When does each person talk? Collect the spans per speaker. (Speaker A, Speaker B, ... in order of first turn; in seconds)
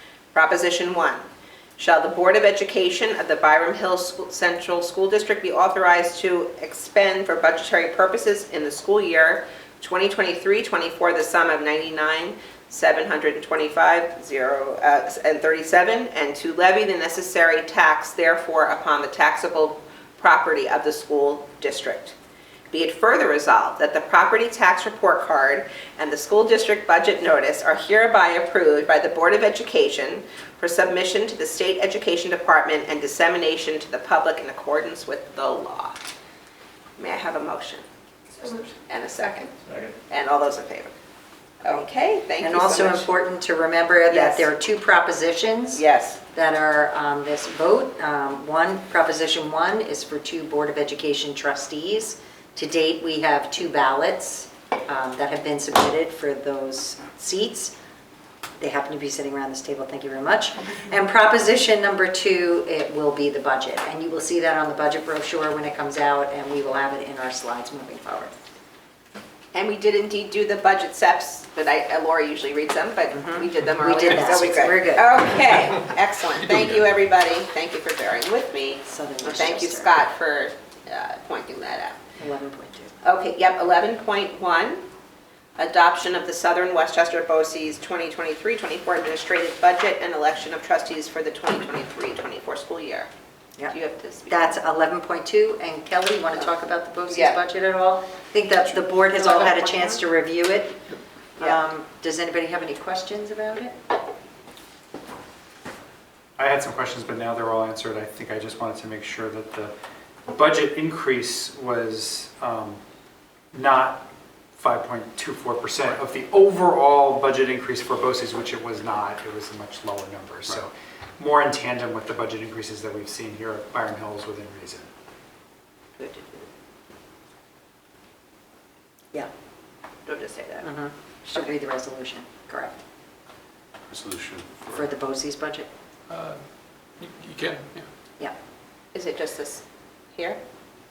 Speaker A: 0.3-1.2, 1.8-22.1, 22.7-36.1, 37.0-37.8, 38.4-39.5, 40.1-40.9, 41.6-43.1, 44.1-44.5, 45.7-46.2, 69.5-82.0, 83.0-84.8, 85.6-93.1, 93.7-94.5, 97.1-97.4, 99.1-100.0, 126.0-126.5, 130.1-130.7, 138.9-140.4
Speaker B: 42.4-57.7, 58.6-68.3, 73.1-75.2, 78.8-80.0, 82.2-82.9, 94.3-100.8, 101.4-103.8, 130.6-132.8, 134.7-135.7
Speaker C: 76.4-76.8, 133.9-134.8, 136.1-136.4, 137.0-137.8
Speaker D: 106.4-109.7, 110.3-112.8, 113.5-114.0, 114.5-124.9